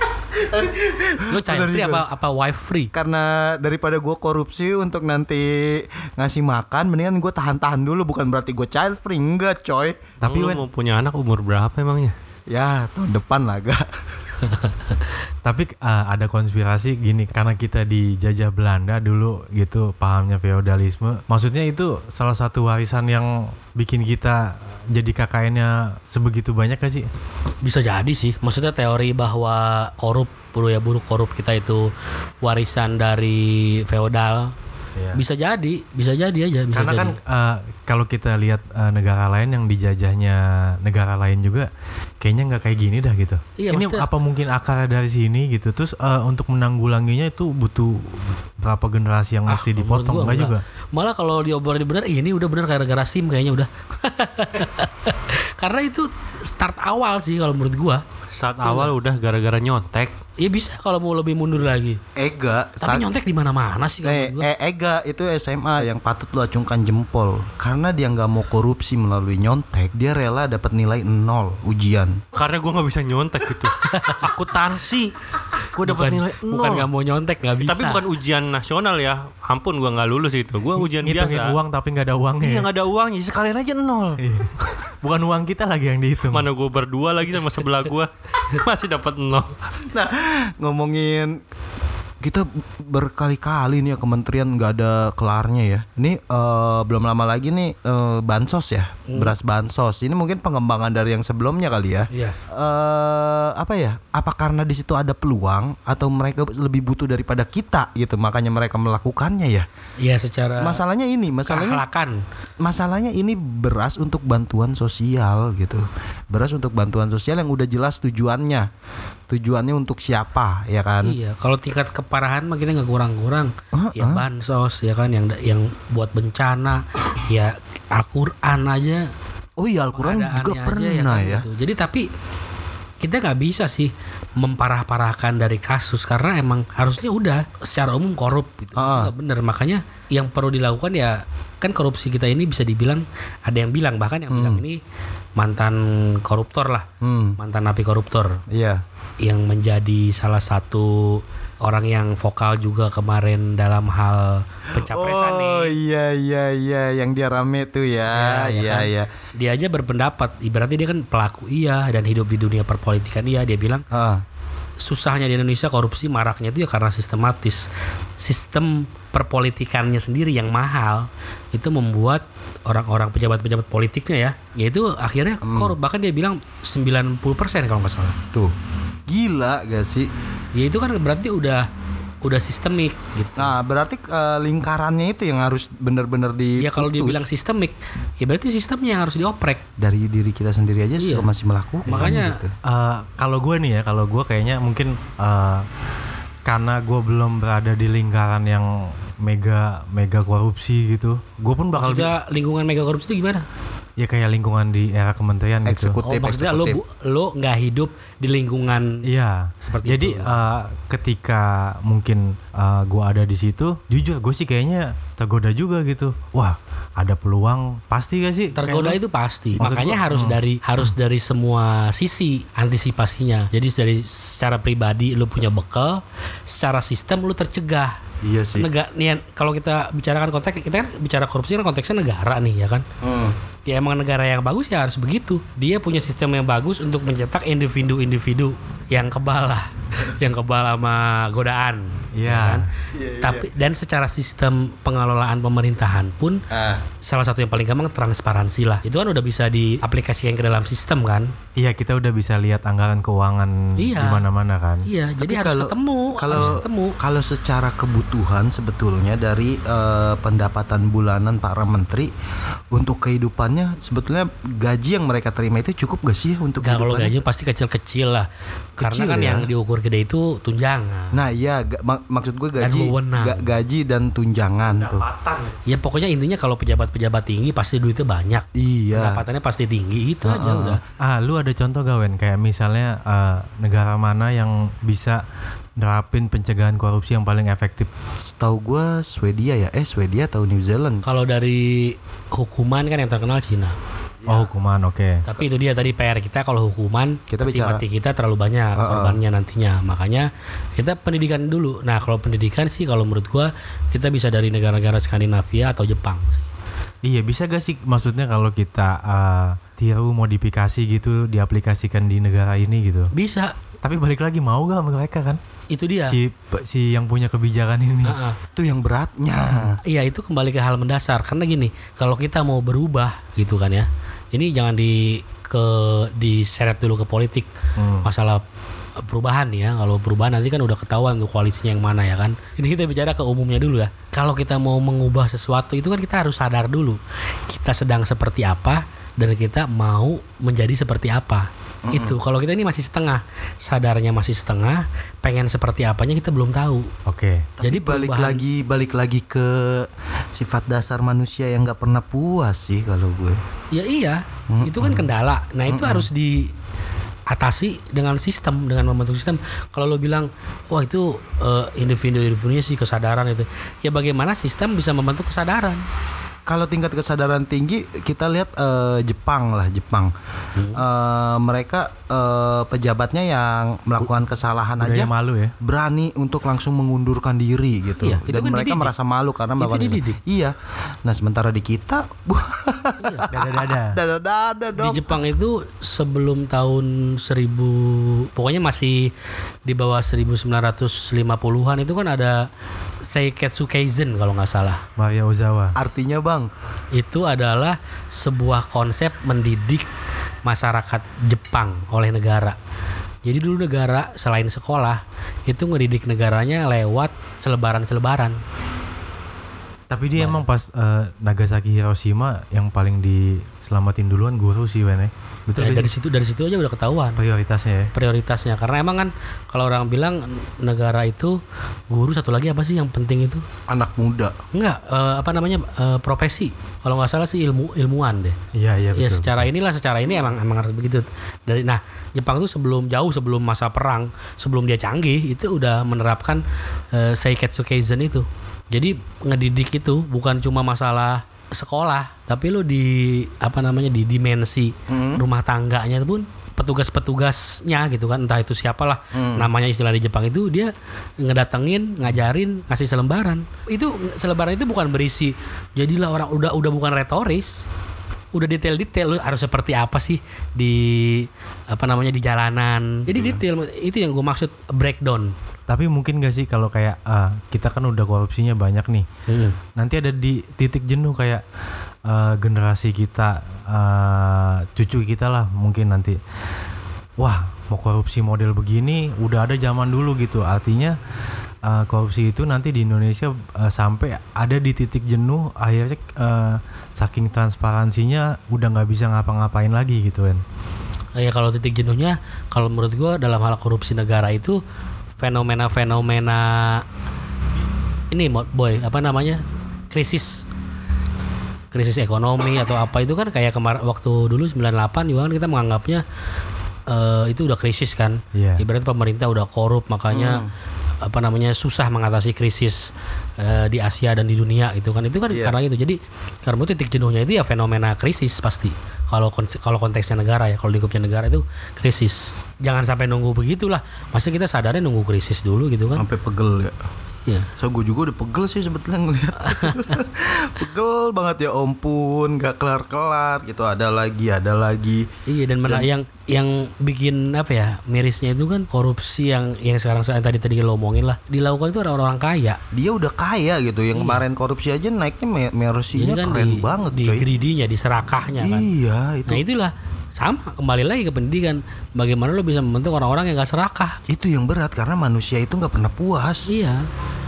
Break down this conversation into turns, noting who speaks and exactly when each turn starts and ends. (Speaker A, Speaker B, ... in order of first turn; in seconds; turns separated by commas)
Speaker A: 0.3-2.0, Speaker B: 1.3-2.9, Speaker A: 2.9-10.1, Speaker C: 10.2-10.6, Speaker D: 10.2-12.1, Speaker A: 12.5-14.6, Speaker C: 15.4-27.1, Speaker B: 27.6-31.9, Speaker B: 32.4-34.5, Speaker B: 35.1-37.2, Speaker C: 36.7-41.7, Speaker C: 42.2-50.6, Speaker B: 43.6-44.1, Speaker B: 49.5-58.0, Speaker D: 58.3-60.1, Speaker B: 58.6-58.9, Speaker B: 60.4-62.0, Speaker A: 62.2-63.1, Speaker B: 62.8-64.5, Speaker A: 64.0-72.2, Speaker D: 72.3-76.9, Speaker B: 73.8-74.3, Speaker B: 75.8-78.0, Speaker D: 77.6-81.6, Speaker C: 81.0-82.7, Speaker D: 82.4-84.8, Speaker C: 84.2-86.5, Speaker D: 86.3-89.5, Speaker A: 89.9-91.4, Speaker A: 92.2-109.7, Speaker B: 99.1-99.3, Speaker B: 102.1-102.4, Speaker B: 110.0-110.8, Speaker A: 110.6-111.8, Speaker B: 111.5-112.2, Speaker A: 112.6-118.7, Speaker A: 119.3-121.2, Speaker B: 121.0-129.1, Speaker A: 123.7-124.2, Speaker A: 129.6-131.4, Speaker B: 129.9-132.1, Speaker B: 133.0-144.8, Speaker A: 138.8-139.1, Speaker A: 144.3-144.6, Speaker B: 145.4-148.4, Speaker A: 147.0-147.4, Speaker A: 148.5-148.8, Speaker B: 149.2-155.8, Speaker A: 154.7-159.1, Speaker B: 158.1-163.8, Speaker A: 163.9-164.2, Speaker B: 164.8-178.2, Speaker A: 175.4-175.8, Speaker A: 179.1-180.1, Speaker B: 180.6-181.7, Speaker B: 182.2-183.6, Speaker A: 183.4-187.2, Speaker B: 186.6-189.6, Speaker A: 189.8-192.6, Speaker B: 191.0-191.3, Speaker B: 191.9-192.4, Speaker C: 192.7-195.7, Speaker C: 196.5-198.7, Speaker C: 199.2-202.1, Speaker B: 201.8-203.5, Speaker C: 204.0-206.0, Speaker A: 205.7-206.8, Speaker B: 206.0-209.0, Speaker C: 209.1-219.0, Speaker B: 209.6-210.4, Speaker B: 218.5-228.0, Speaker A: 219.6-220.3, Speaker C: 219.6-220.4, Speaker A: 228.2-228.7, Speaker B: 228.6-232.8, Speaker A: 233.0-233.3, Speaker B: 233.7-242.7, Speaker C: 242.2-242.7, Speaker A: 242.9-243.5, Speaker B: 243.2-246.4, Speaker A: 246.5-246.8, Speaker B: 247.0-251.3, Speaker C: 251.6-254.9, Speaker B: 253.8-254.2, Speaker B: 254.8-257.0, Speaker A: 255.2-262.1, Speaker A: 262.7-267.2, Speaker B: 266.6-268.3, Speaker B: 268.8-271.2, Speaker A: 268.8-269.5, Speaker A: 271.1-275.1, Speaker B: 272.6-273.5, Speaker D: 274.6-275.6, Speaker B: 275.7-280.8, Speaker A: 278.6-279.2, Speaker A: 280.2-280.8, Speaker C: 281.0-285.2, Speaker C: 285.8-287.9, Speaker A: 288.3-291.0, Speaker B: 291.0-293.8, Speaker A: 294.2-294.5, Speaker C: 294.3-295.2, Speaker B: 295.3-306.5, Speaker A: 297.3-297.8, Speaker A: 298.8-299.2, Speaker C: 307.0-313.1, Speaker B: 313.1-313.5, Speaker C: 313.8-315.4, Speaker B: 315.7-316.2, Speaker C: 316.1-318.2, Speaker B: 318.0-318.4, Speaker A: 318.6-319.8, Speaker B: 319.8-327.5, Speaker C: 327.8-328.1, Speaker B: 328.0-328.4, Speaker B: 329.1-346.9, Speaker A: 341.9-342.2, Speaker C: 347.1-347.5, Speaker A: 347.6-353.4, Speaker B: 347.6-348.4, Speaker B: 353.7-356.5, Speaker A: 354.5-355.0, Speaker A: 355.7-356.1, Speaker B: 357.3-365.8, Speaker A: 366.5-370.1, Speaker B: 370.6-370.8, Speaker A: 370.8-375.1, Speaker C: 374.8-375.6, Speaker A: 375.6-385.2, Speaker B: 378.0-378.9, Speaker B: 379.6-380.2, Speaker B: 383.0-383.3, Speaker C: 383.3-384.0, Speaker B: 384.8-389.1, Speaker B: 389.7-392.5, Speaker B: 393.0-394.8, Speaker C: 395.0-395.8, Speaker A: 395.8-396.5, Speaker B: 396.9-399.9, Speaker B: 400.4-402.6, Speaker B: 403.2-408.4, Speaker C: 409.9-415.9, Speaker B: 410.2-410.4, Speaker B: 415.6-417.2, Speaker C: 417.2-417.9, Speaker B: 417.9-421.4, Speaker B: 421.9-423.4, Speaker A: 423.7-424.3, Speaker B: 424.5-428.4, Speaker C: 428.5-429.5, Speaker B: 428.9-457.6, Speaker A: 444.9-445.2, Speaker A: 449.1-449.5, Speaker B: 458.3-465.3, Speaker A: 463.1-463.4, Speaker C: 465.7-469.1, Speaker B: 469.3-469.6, Speaker C: 469.8-471.4, Speaker C: 472.1-476.2, Speaker C: 477.2-481.0, Speaker C: 481.6-490.4, Speaker B: 491.2-494.6, Speaker B: 495.2-496.9, Speaker B: 498.1-500.4, Speaker B: 501.7-506.0, Speaker B: 506.9-510.4, Speaker C: 508.3-508.6, Speaker A: 510.1-510.5, Speaker B: 511.0-512.9, Speaker B: 513.4-526.0, Speaker A: 515.3-515.5, Speaker A: 526.0-526.8, Speaker A: 527.6-535.1, Speaker B: 529.4-529.8, Speaker B: 535.3-542.6, Speaker A: 542.7-547.2, Speaker B: 543.9-544.2, Speaker B: 545.9-548.7, Speaker A: 548.4-549.4, Speaker B: 549.3-554.0, Speaker A: 554.1-556.5, Speaker B: 556.5-556.8